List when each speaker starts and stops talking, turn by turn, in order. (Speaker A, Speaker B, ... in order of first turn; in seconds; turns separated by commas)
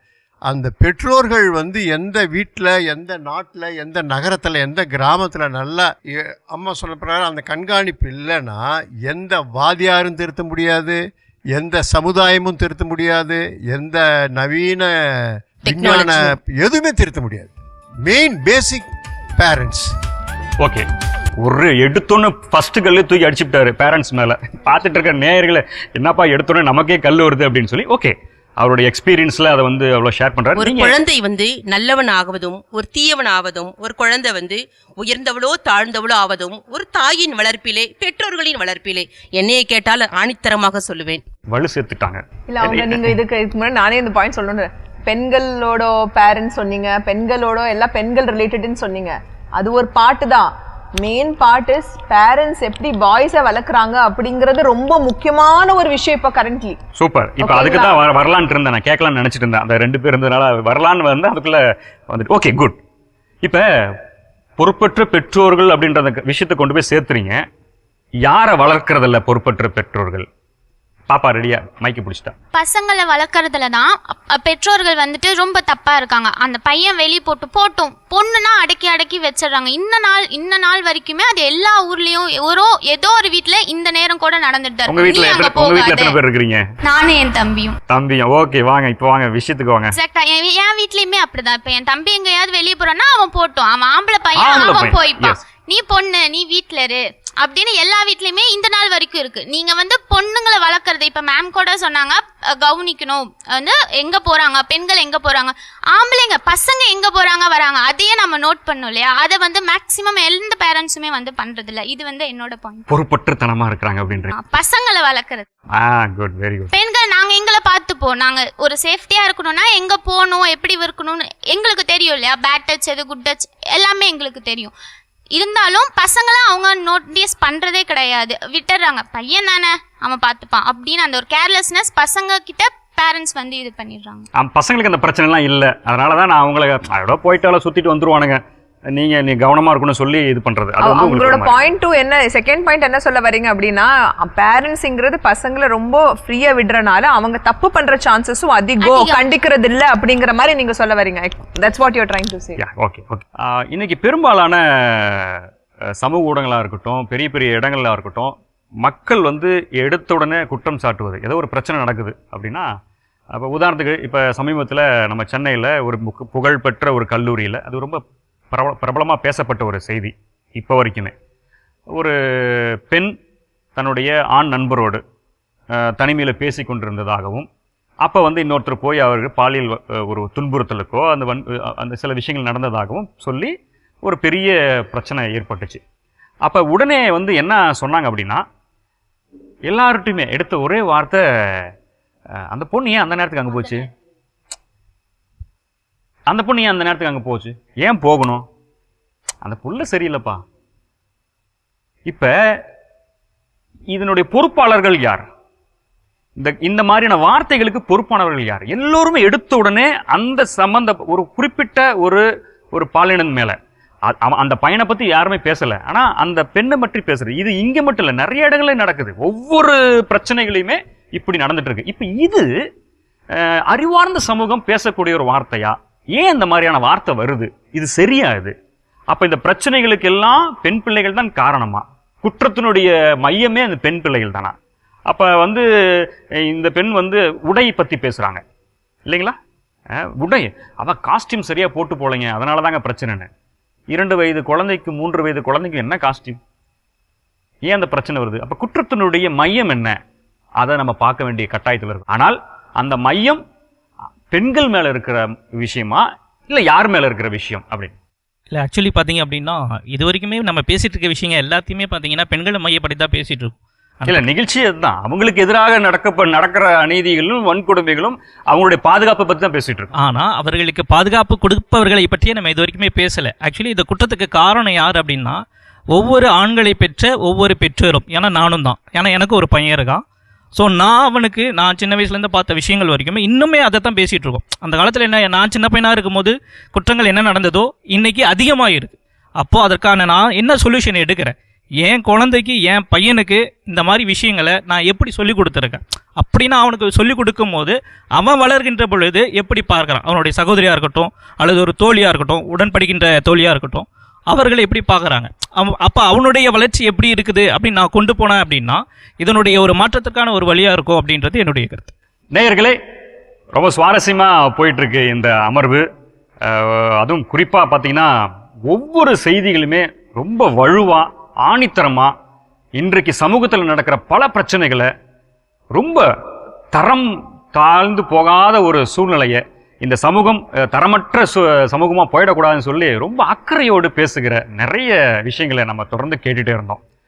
Speaker A: 0.5-11.0, Speaker A: 11.5-17.5, Speaker B: 15.7-16.3, Speaker A: 18.0-19.9, Speaker C: 21.4-30.9, Speaker B: 30.6-41.2, Speaker C: 41.5-43.1, Speaker D: 42.5-50.5, Speaker D: 51.0-56.8, Speaker C: 57.0-62.8, Speaker D: 57.4-58.0, Speaker C: 64.6-67.4, Speaker C: 68.3-70.3, Speaker C: 71.1-72.3, Speaker E: 72.5-86.2, Speaker C: 84.9-86.6, Speaker E: 86.8-87.8, Speaker C: 87.9-89.9, Speaker E: 89.9-112.9, Speaker C: 94.4-95.4, Speaker C: 112.9-114.3, Speaker E: 114.3-115.5, Speaker C: 115.8-116.7, Speaker E: 116.7-124.7, Speaker E: 125.3-134.3, Speaker C: 134.4-138.4, Speaker C: 138.9-141.6, Speaker D: 140.8-152.6, Speaker E: 148.8-149.2, Speaker C: 152.6-155.5, Speaker C: 156.0-162.7, Speaker C: 163.3-168.0, Speaker C: 168.5-171.1, Speaker C: 171.9-173.1, Speaker C: 173.8-175.0, Speaker C: 175.8-177.5, Speaker C: 178.0-185.8, Speaker C: 186.4-188.4, Speaker C: 189.7-191.7, Speaker C: 192.5-193.9, Speaker C: 196.3-198.4, Speaker C: 199.4-200.4, Speaker C: 203.9-205.3, Speaker C: 206.4-213.6, Speaker C: 214.1-222.5, Speaker C: 223.4-228.5, Speaker C: 229.1-234.6, Speaker C: 235.1-235.7, Speaker C: 236.4-238.4, Speaker C: 239.1-239.4, Speaker C: 239.9-243.3, Speaker C: 243.9-246.4, Speaker C: 247.7-250.0, Speaker C: 250.6-253.4, Speaker C: 254.3-257.9, Speaker F: 258.5-264.2, Speaker C: 264.1-269.9, Speaker F: 270.0-275.4, Speaker F: 275.9-280.0, Speaker F: 280.6-311.9, Speaker C: 312.3-312.8, Speaker C: 313.6-315.8, Speaker C: 316.4-318.1, Speaker C: 318.7-322.1, Speaker C: 322.8-324.9, Speaker C: 325.7-326.1, Speaker C: 326.7-336.8